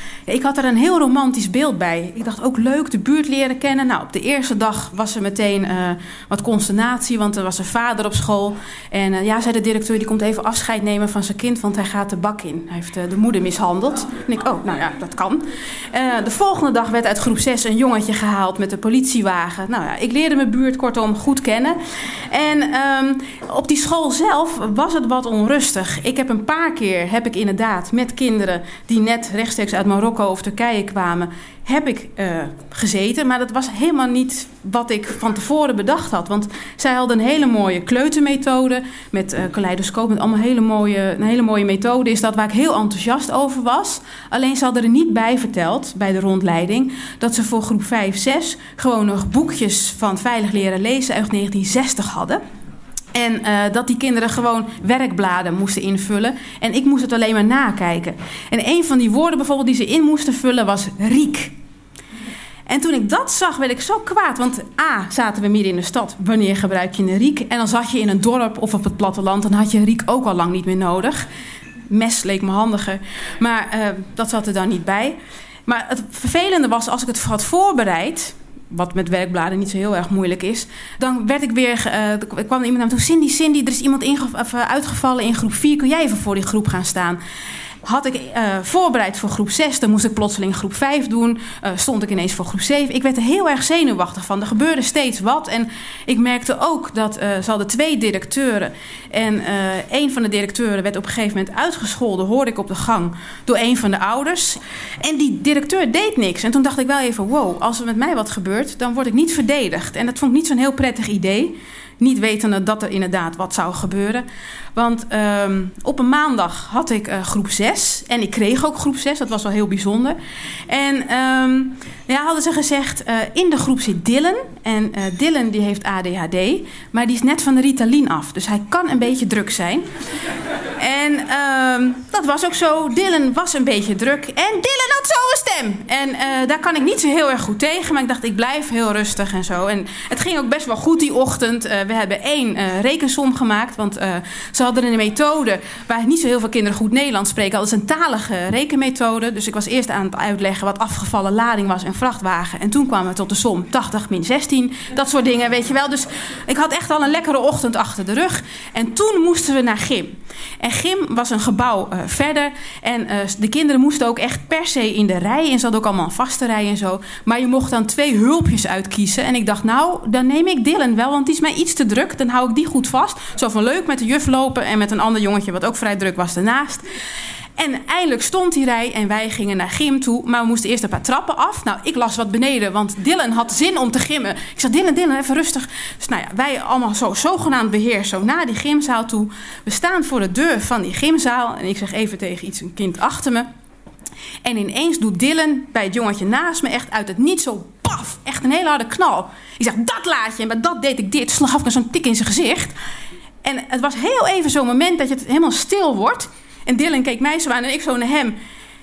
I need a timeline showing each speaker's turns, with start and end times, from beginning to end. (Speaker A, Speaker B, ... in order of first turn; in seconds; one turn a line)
Speaker A: 0.3-21.8
Speaker A: 22.3-52.4
Speaker A: 53.1-61.5
Speaker A: 62.7-71.2
Speaker A: 71.9-87.2
Speaker A: 87.8-129.8
Speaker A: 130.8-176.8
Speaker A: 177.6-193.5
Speaker A: 194.4-202.7
Speaker A: 203.4-208.3